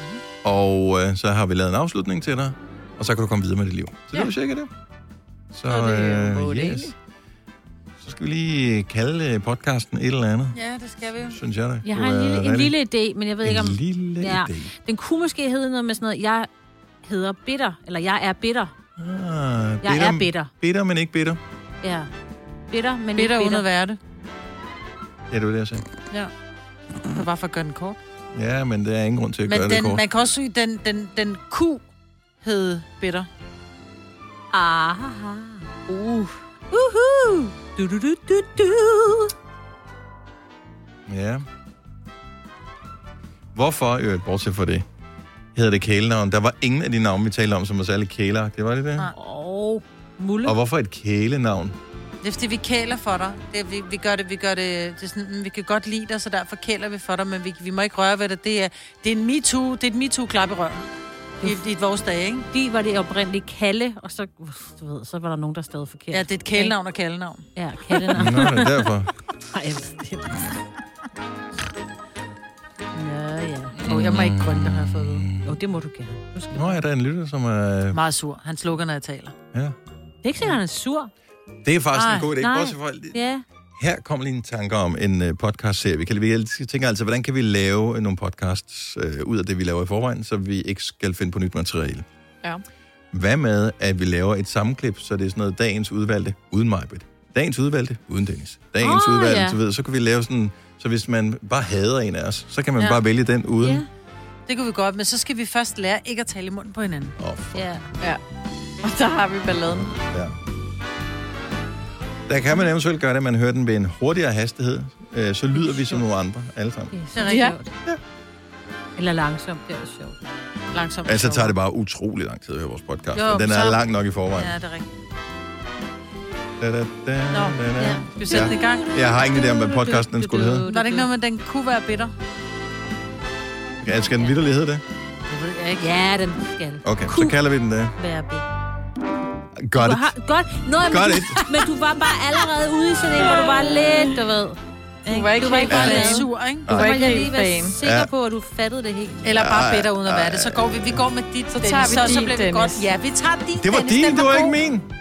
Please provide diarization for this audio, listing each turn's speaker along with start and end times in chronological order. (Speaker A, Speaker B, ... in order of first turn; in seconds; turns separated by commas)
Speaker A: 0.4-4.7, Speaker A: 5.5-6.9, Speaker B: 5.7-6.9, Speaker A: 8.0-10.6, Speaker C: 10.5-11.4, Speaker A: 11.3-12.8, Speaker D: 11.8-16.5, Speaker A: 13.4-14.7, Speaker D: 17.0-18.7, Speaker A: 19.0-21.4, Speaker D: 19.8-20.5, Speaker D: 21.8-22.1, Speaker D: 22.7-23.7, Speaker C: 23.1-24.0, Speaker A: 25.3-25.8, Speaker C: 27.1-28.0, Speaker A: 28.3-30.0, Speaker C: 29.5-31.8, Speaker C: 32.4-33.3, Speaker D: 34.5-39.3, Speaker A: 41.1-41.4, Speaker A: 43.5-44.8, Speaker A: 45.5-49.1, Speaker D: 49.0-50.6, Speaker A: 50.4-51.8, Speaker C: 52.2-60.9, Speaker C: 61.4-62.5, Speaker D: 62.5-66.8, Speaker C: 66.1-68.0, Speaker D: 67.5-68.9, Speaker A: 68.1-69.1, Speaker D: 69.5-70.6, Speaker D: 72.9-74.3, Speaker C: 73.8-75.2, Speaker A: 73.9-75.6, Speaker D: 75.4-76.8, Speaker A: 76.5-78.0, Speaker C: 77.9-79.4, Speaker D: 80.2-81.1, Speaker A: 81.6-83.2, Speaker C: 81.9-82.3, Speaker D: 82.3-83.4, Speaker A: 83.8-92.0, Speaker A: 93.1-103.8, Speaker D: 98.8-99.6, Speaker D: 103.6-103.9, Speaker C: 104.5-107.2, Speaker A: 107.2-107.7, Speaker D: 107.5-107.9, Speaker B: 108.8-109.9, Speaker A: 110.0-110.3, Speaker A: 112.3-117.0, Speaker D: 115.6-116.0, Speaker D: 116.9-117.7, Speaker B: 117.2-117.5, Speaker D: 119.0-120.2, Speaker C: 120.7-121.5, Speaker A: 121.0-124.5, Speaker C: 123.1-124.9, Speaker A: 126.6-130.7, Speaker C: 127.3-128.9, Speaker D: 127.8-131.1, Speaker C: 130.7-132.1, Speaker A: 133.8-134.8, Speaker D: 133.9-134.3, Speaker C: 135.3-135.8, Speaker D: 135.5-137.3, Speaker A: 136.8-138.0, Speaker D: 138.0-138.4, Speaker A: 139.6-140.1, Speaker D: 139.8-149.3, Speaker A: 140.8-141.6, Speaker B: 145.1-147.8, Speaker C: 145.4-146.8, Speaker A: 145.7-146.0, Speaker A: 146.7-147.1, Speaker A: 147.8-148.1, Speaker C: 149.2-154.6, Speaker A: 149.3-151.0, Speaker B: 151.5-152.8, Speaker A: 153.6-154.9